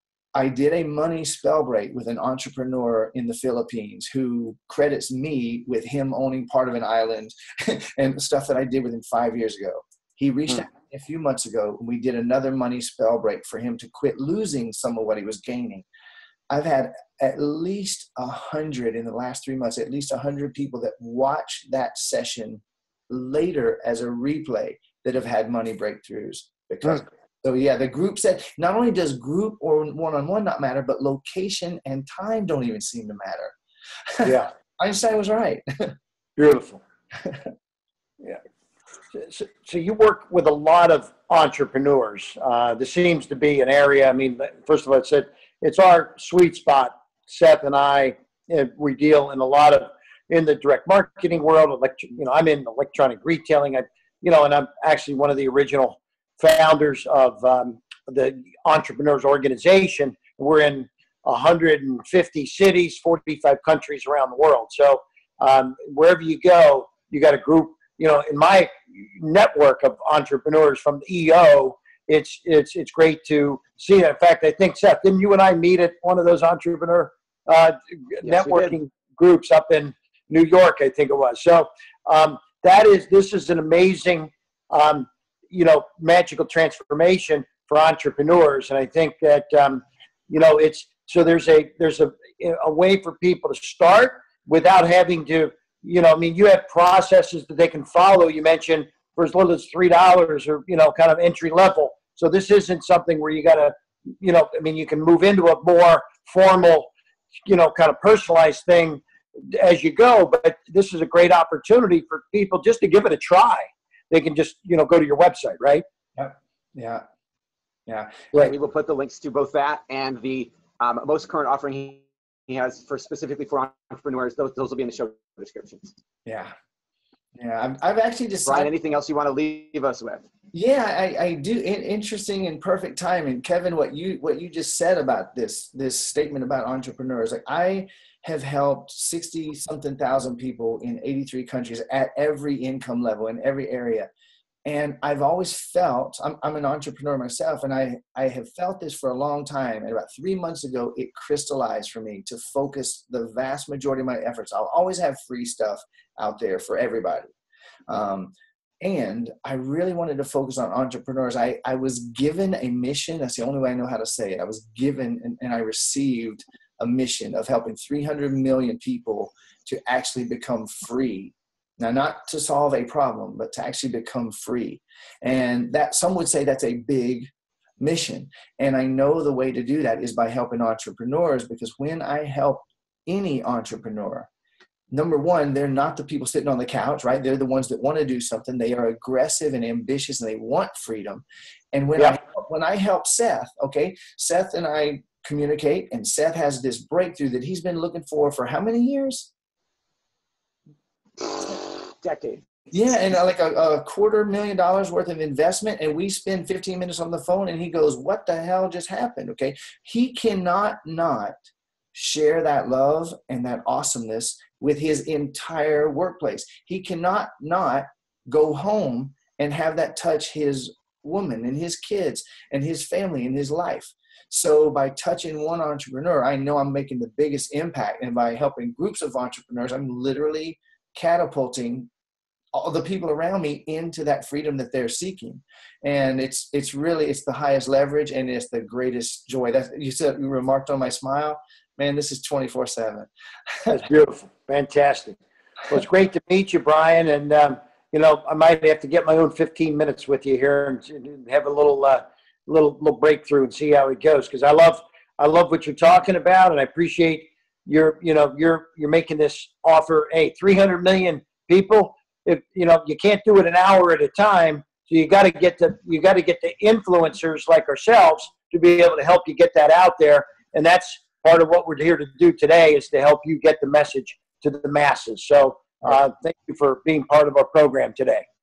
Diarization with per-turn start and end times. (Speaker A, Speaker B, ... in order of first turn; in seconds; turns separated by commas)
Speaker A: 0.3-15.9, Speaker A: 16.5-33.5, Speaker A: 34.1-35.9, Speaker B: 34.2-34.5, Speaker B: 36.4-36.8, Speaker A: 37.2-37.5, Speaker B: 39.1-106.9, Speaker C: 78.2-78.8, Speaker B: 107.5-115.8, Speaker A: 116.2-117.0, Speaker A: 117.9-118.1, Speaker C: 118.4-126.0, Speaker A: 126.2-126.5, Speaker A: 127.4-128.7, Speaker C: 128.5-130.3, Speaker A: 130.5-144.1, Speaker A: 144.7-157.3, Speaker A: 157.9-184.3, Speaker A: 184.9-199.3, Speaker C: 201.2-202.4, Speaker A: 202.7-211.3, Speaker A: 211.9-231.9, Speaker A: 232.5-243.8, Speaker B: 243.7-245.2, Speaker B: 245.7-278.2